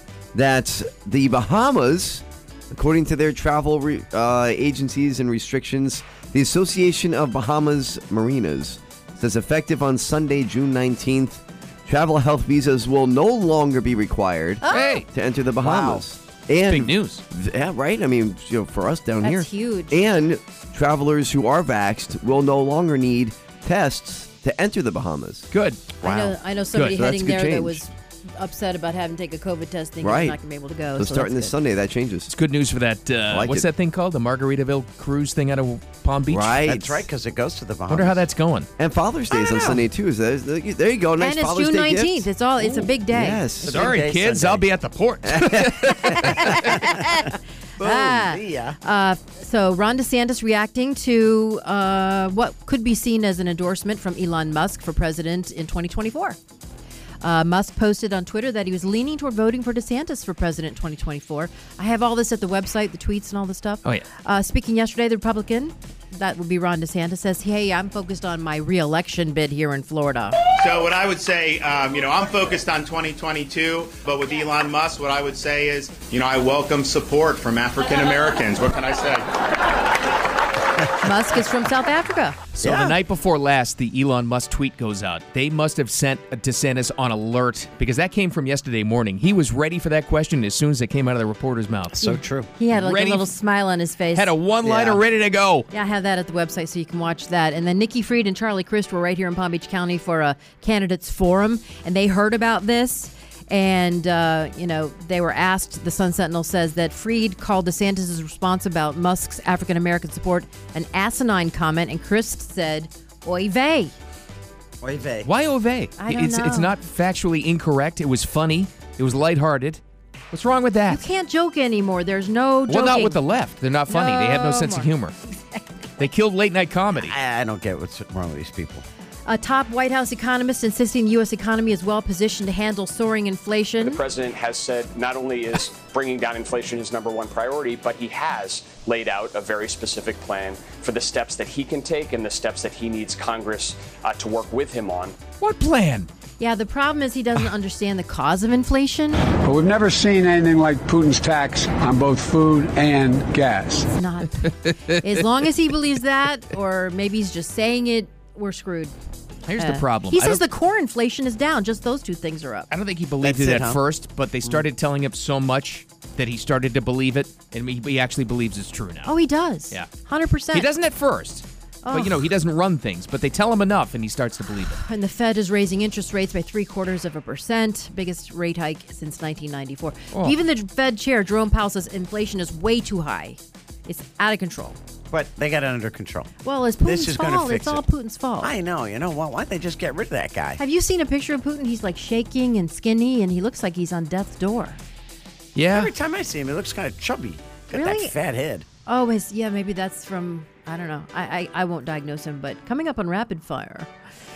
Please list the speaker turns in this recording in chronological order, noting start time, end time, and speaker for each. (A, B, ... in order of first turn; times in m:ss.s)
0:00.3-0:25.5 A
0:14.6-0:15.0 B
0:14.7-0:15.1 C
0:15.6-0:16.0 D
0:16.6-0:17.2 C
0:19.2-0:20.0 B
0:25.5-0:26.0 C
0:26.0-0:31.6 B
0:26.9-0:27.8 A
0:30.0-0:30.4 A
0:31.0-0:32.3 A
0:32.3-0:36.8 C
0:33.3-0:33.7 A
0:36.3-0:37.0 A
0:36.6-0:38.2 D
0:37.9-0:38.7 C
0:38.8-0:43.9 A
0:39.3-0:39.8 B
0:41.2-0:43.4 B
0:43.6-0:44.7 D
0:43.6-0:46.7 C
0:45.2-0:46.5 A
0:46.1-0:56.4 B
0:46.7-0:47.3 D
0:47.8-0:48.8 D
0:57.2-1:10.5 B
1:10.6-1:19.3 E
1:21.0-1:22.4 B
1:22.5-1:32.1 C
1:22.6-1:23.0 D
1:32.0-1:32.5 D
1:32.6-1:34.3 B
1:32.7-1:33.3 C
1:34.1-1:35.7 C
1:34.6-1:35.0 D
1:35.7-1:53.9 B
1:54.8-1:55.3 D
1:55.2-1:59.8 C
1:56.0-1:56.8 B
2:00.3-2:01.0 C
2:00.9-2:03.2 B
2:02.7-2:05.2 C
2:03.9-2:04.9 B
2:06.0-2:07.2 C
2:07.0-2:08.8 D
2:09.3-2:14.0 B
2:14.0-2:25.2 F
2:25.4-2:26.1 C
2:26.4-2:29.2 B
2:29.5-2:33.9 G
2:33.9-2:38.9 B
2:39.5-2:40.4 C
2:39.6-2:42.7 B
2:42.7-2:49.1 C
2:43.2-2:43.8 A
2:49.0-2:50.7 B
2:50.5-2:54.8 C
2:51.8-2:52.2 B
2:54.7-3:04.8 B
3:05.1-3:06.3 D
3:06.4-3:08.5 B
3:06.8-3:07.8 D
3:08.4-3:10.6 D
3:10.6-3:14.8 B
3:15.6-3:15.9 C
3:15.7-3:18.7 D
3:17.7-3:18.2 B
3:18.9-3:23.9 B